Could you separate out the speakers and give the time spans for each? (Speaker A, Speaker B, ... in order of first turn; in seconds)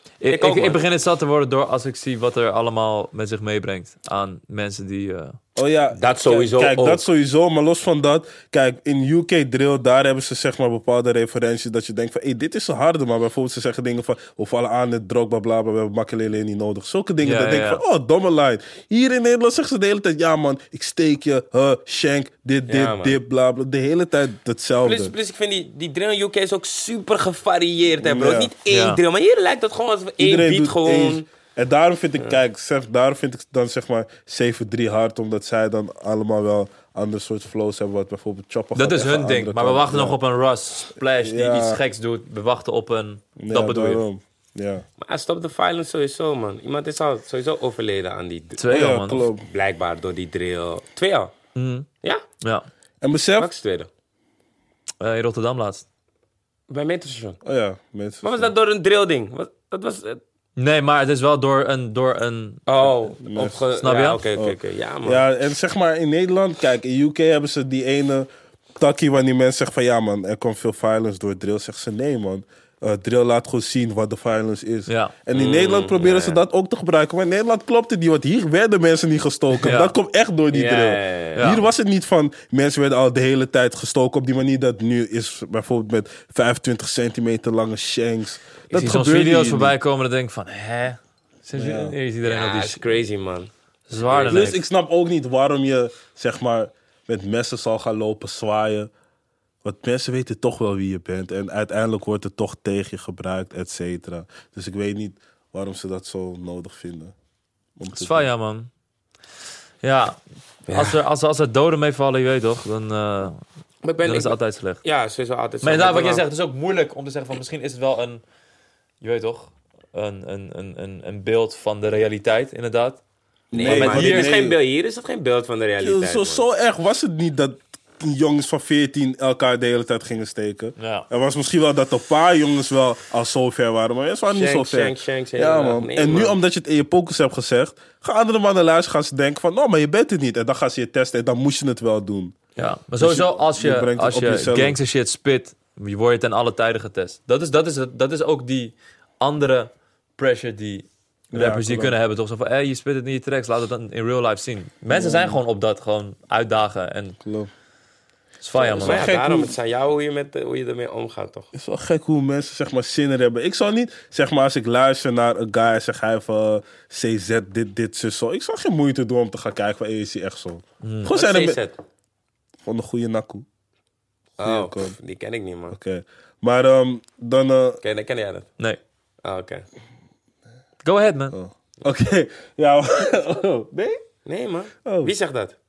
Speaker A: 0.2-5.4, 17.2-17.8, 28.7-29.0, 38.7-44.0, 48.6-49.3, 51.5-51.9, 52.4-52.7, 55.0-55.8, 60.5-63.1, 63.8-64.2, 74.9-75.1, 79.6-79.9, 81.4-81.6, 88.7-93.0, 93.9-94.6, 107.9-108.7, 109.8-110.2, 110.7-113.4, 114.0-114.8, 115.6-118.2, 119.0-123.0, 123.6-124.4, 130.8-131.1, 142.6-157.2, 158.4-159.1, 170.8-171.1, 180.8-181.3
Speaker B: 0.3-0.8, 6.0-7.1, 22.7-23.2, 24.8-31.3, 45.0-48.6, 49.5-51.3, 53.4-53.9, 56.7-57.4, 58.2-60.2, 62.7-65.2, 75.3-76.4, 80.5-81.5, 92.2-93.5, 94.0-94.6, 110.7-111.0, 113.8-116.2, 123.5-126.4, 134.3-136.3, 158.6-161.5, 171.1-171.8, 174.4-175.8, 177.8-178.5, 179.2-179.6, 183.8-185.6
Speaker C: 5.5-25.1, 28.0-28.5, 30.2-40.2, 41.2-41.8, 43.4-44.8, 48.7-49.4, 53.0-53.5, 57.4-58.5, 63.2-63.5, 64.3-89.7, 91.5-92.0, 94.2-98.9, 99.6-107.1, 107.8-108.3, 123.5-124.6, 125.8-144.8, 151.3-151.9, 154.9-155.4, 157.2-157.5, 158.7-159.5, 161.5-171.6, 172.6-173.4, 174.4-175.0, 175.7-177.8, 181.3-183.8, 184.8-185.1